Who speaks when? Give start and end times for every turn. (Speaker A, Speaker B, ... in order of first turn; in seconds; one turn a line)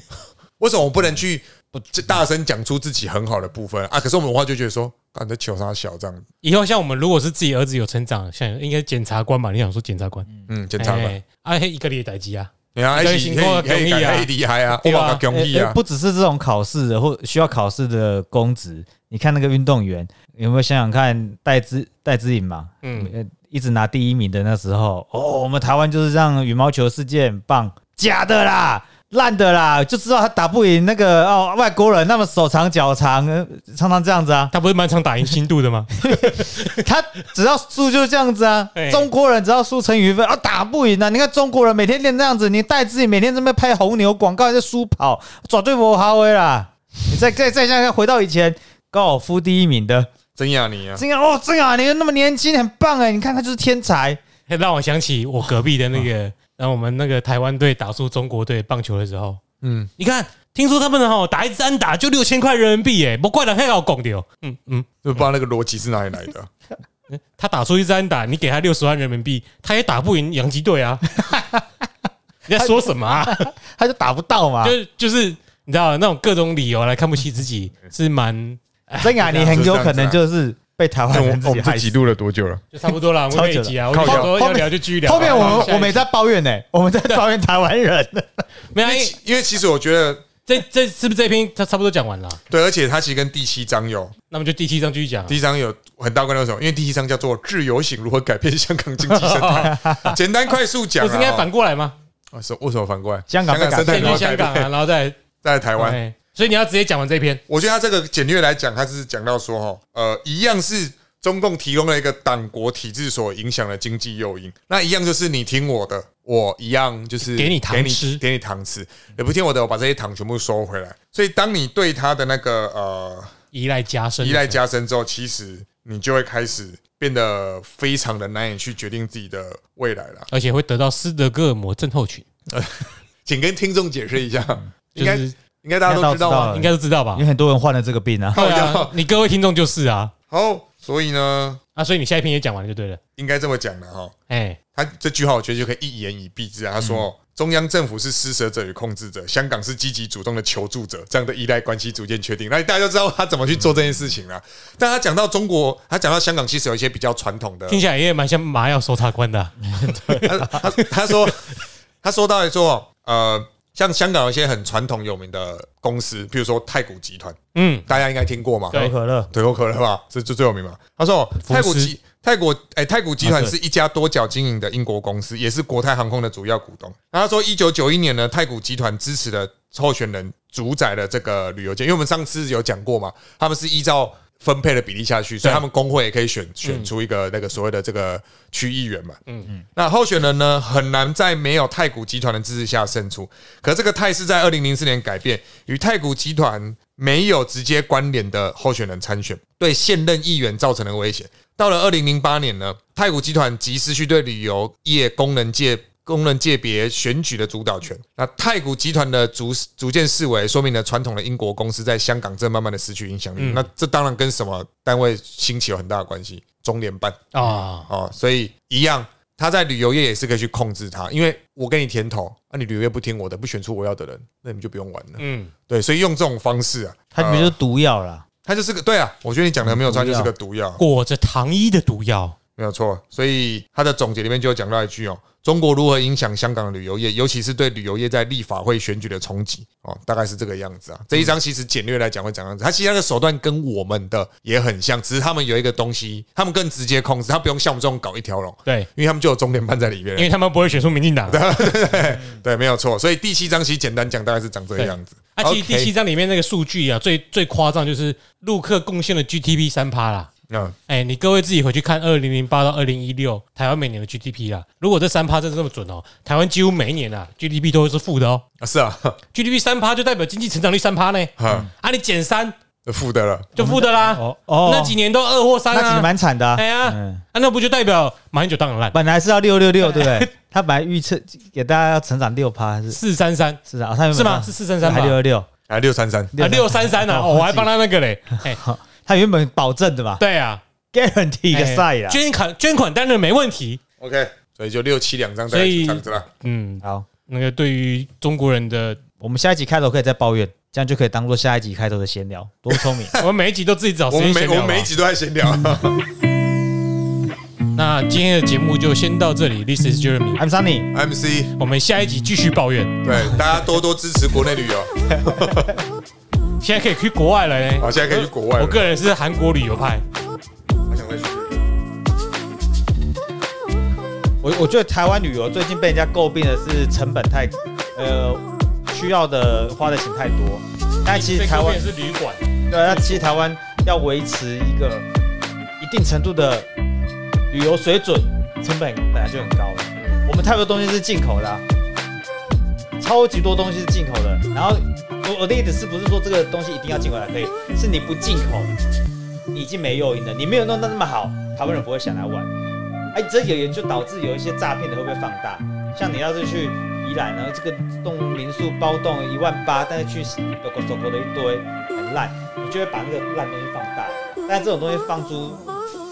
Speaker A: 0.6-6.2
Speaker B: 6.4-10.3
Speaker A: 10.5-11.2
Speaker B: 10.8-15.2
Speaker A: 12.8-15.8
Speaker C: 15.3-34.5
Speaker B: 22.8-23.1
Speaker B: 34.5-36.8
Speaker C: 36.0-50.1
Speaker B: 38.8-39.1
Speaker A: 50.4-51.0
Speaker C: 51.0-54.2
Speaker B: 54.5-59.4
Speaker A: 59.6-59.9
Speaker B: 60.0-65.2
Speaker A: 65.0-66.5
Speaker B: 67.1-71.2
Speaker C: 71.2-71.7
Speaker B: 72.5-73.5
Speaker C: 72.6-74.8
Speaker B: 74.6-79.6
Speaker C: 79.0-81.9
Speaker A: 79.5-80.2
Speaker A: 81.1-82.7
Speaker B: 82.7-86.0
Speaker C: 83.3-88.5
Speaker A: 83.9-84.3
Speaker A: 85.2-85.7
Speaker B: 88.7-89.2
Speaker A: 88.8-90.3
Speaker B: 90.5-92.4
Speaker A: 92.5-94.1
Speaker B: 94.3-95.4
Speaker A: 95.3-101.5
Speaker B: 99.1-100.2
Speaker C: 99.7-100.2
Speaker B: 101.0-102.0
Speaker A: 102.3-104.7
Speaker C: 103.3-104.3
Speaker B: 103.8-105.2
Speaker A: 105.4-106.0
Speaker B: 105.8-107.4
Speaker A: 107.5-123.3
Speaker B: 117.2-118.2
Speaker B: 123.5-124.6
Speaker A: 124.2-130.3
Speaker B: 130.3-132.3
Speaker A: 132.5-136.6
Speaker B: 134.9-135.3
Speaker C: 135.9-138.4
Speaker B: 136.5-137.2
Speaker A: 138.3-138.9
Speaker B: 138.3-140.1
Speaker A: 140.3-141.6
Speaker B: 141.8-143.0
Speaker A: 143.2-144.1
Speaker B: 144.3-144.6
Speaker A: 144.7-157.8
Speaker C: 146.8-147.1
Speaker B: 157.7-159.6
Speaker C: 159.7-160.7
Speaker A: 160.2-189.2
Speaker B: 167.5-167.9
Speaker C: 168.7-169.3
Speaker B: 171.4-171.9
Speaker C: 173.2-173.6
Speaker B: 186.6-186.9
Speaker A: 189.8-227.6
Speaker B: 213.4-213.7
Speaker B: 217.3-217.9
Speaker B: 225.2-225.5
Speaker C: 227.1-228.2
Speaker A: 228.4-230.8
Speaker C: 229.6-230.3
Speaker B: 230.8-232.4
Speaker A: 232.6-250.3
Speaker B: 250.2-251.4
Speaker A: 251.3-255.9
Speaker B: 254.8-260.3
Speaker A: 260.5-260.8
Speaker B: 260.9-268.4
Speaker A: 268.6-269.2
Speaker B: 269.3-272.6
Speaker A: 271.4-271.7
Speaker A: 272.9-273.5
Speaker B: 273.6-279.0
Speaker C: 273.6-275.0
Speaker C: 275.7-277.2
Speaker C: 278.9-283.0
Speaker B: 279.8-280.3
Speaker B: 282.9-283.6
Speaker C: 283.7-285.5
Speaker B: 284.1-285.2
Speaker A: 285.7-286.4
Speaker C: 286.3-287.7
Speaker B: 286.4-288.6
Speaker C: 288.5-290.2
Speaker B: 290.2-290.6
Speaker C: 290.9-292.2
Speaker B: 291.5-293.8
Speaker A: 294.0-296.3
Speaker B: 295.5-299.0
Speaker C: 299.2-303.1
Speaker B: 303.2-304.9
Speaker A: 304.1-306.0
Speaker B: 307.8-310.4
Speaker C: 310.4-310.9
Speaker A: 310.9-311.5
Speaker B: 311.6-313.1
Speaker A: 313.0-315.8
Speaker B: 316.6-317.9
Speaker A: 317.8-318.9
Speaker B: 318.5-320.0
Speaker A: 320.9-321.6
Speaker C: 324.4-331.8
Speaker B: 331.1-333.3
Speaker C: 332.7-335.1
Speaker C: 335.8-336.7
Speaker C: 337.5-341.6
Speaker C: 343.0-348.8
Speaker C: 349.5-352.5
Speaker C: 353.1-365.7